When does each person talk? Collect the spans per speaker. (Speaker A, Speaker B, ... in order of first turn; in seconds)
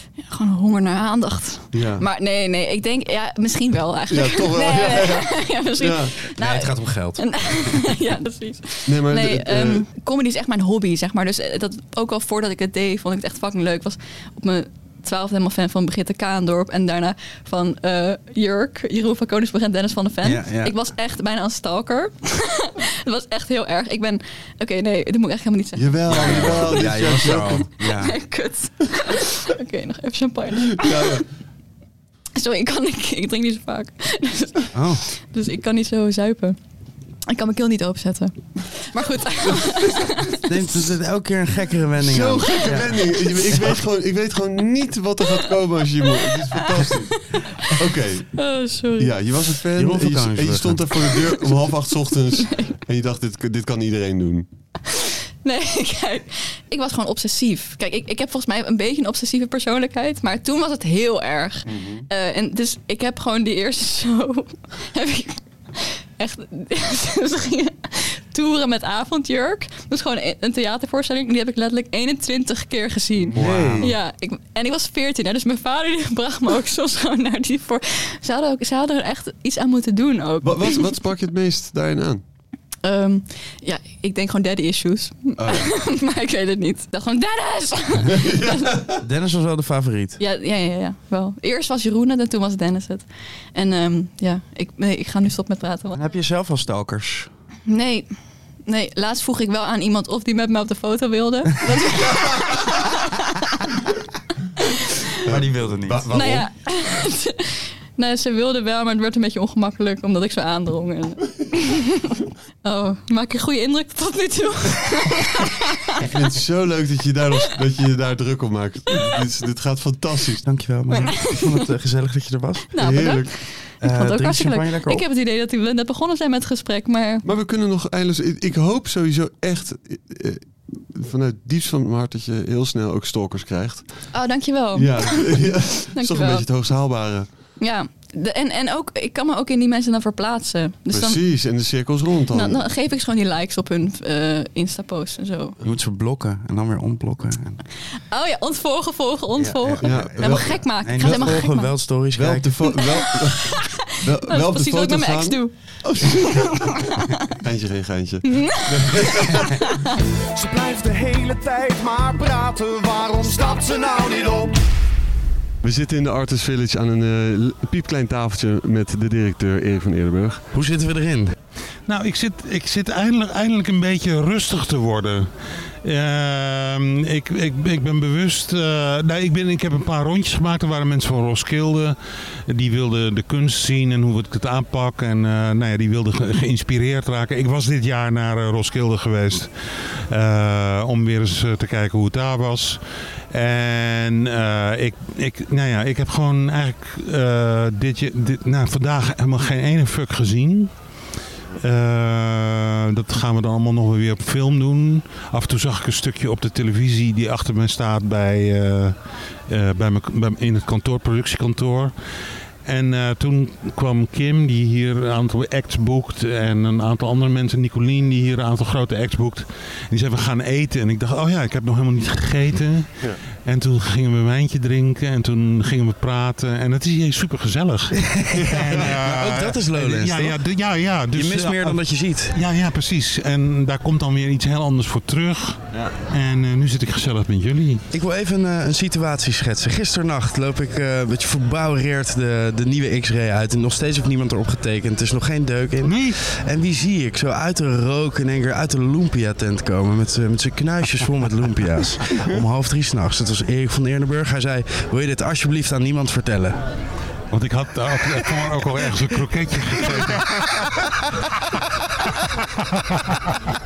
Speaker A: 0.2-26.9, 27.8-31.2, 32.4-36.5, 37.3-40.9, 46.3-47.2, 48.3-49.1, 54.9-80.9, 82.8-88.7, 90.2-96.0, 97.7-98.1, 98.7-103.2, 106.1-112.0, 112.6-116.0, 120.9-121.7, 122.7-127.2, 134.1-136.4, 137.6-141.2, 142.3-145.6, 148.1-151.9, 152.7-155.5, 156.1-156.8, 158.2-159.8
Speaker B: 1.7-2.0, 4.1-5.2, 5.8-6.1, 8.9-9.8, 25.8-27.7, 30.8-31.2, 42.0-47.1, 47.8-48.3, 49.0-54.5, 61.6-62.0, 73.3-73.9, 80.4-82.2, 88.1-89.0, 105.3-106.4, 116.0-120.4, 122.8-123.3, 127.2-133.9, 134.8-137.3, 140.9-142.6, 149.8-151.4, 152.1-155.4, 155.9-156.2, 157.4-159.6, 165.6-170.4, 228.3-229.0
Speaker C: 6.3-7.7, 20.2-20.8, 26.1-28.1, 34.7-35.0, 40.4-43.0, 49.7-50.9, 73.4-73.9, 89.0-90.2, 95.9-97.3, 105.2-106.4, 120.4-122.7, 123.8-125.0, 145.6-147.6, 149.3-152.6, 170.5-171.3, 228.0-230.4, 231.1-232.4, 237.9-256.6
Speaker D: 160.4-164.5
Speaker E: 171.9-175.3, 175.8-182.0, 182.5-192.8, 193.3-200.7, 201.6-209.0, 209.5-211.9, 212.6-228.0, 228.5-237.8, 245.8-246.2, 257.3-260.6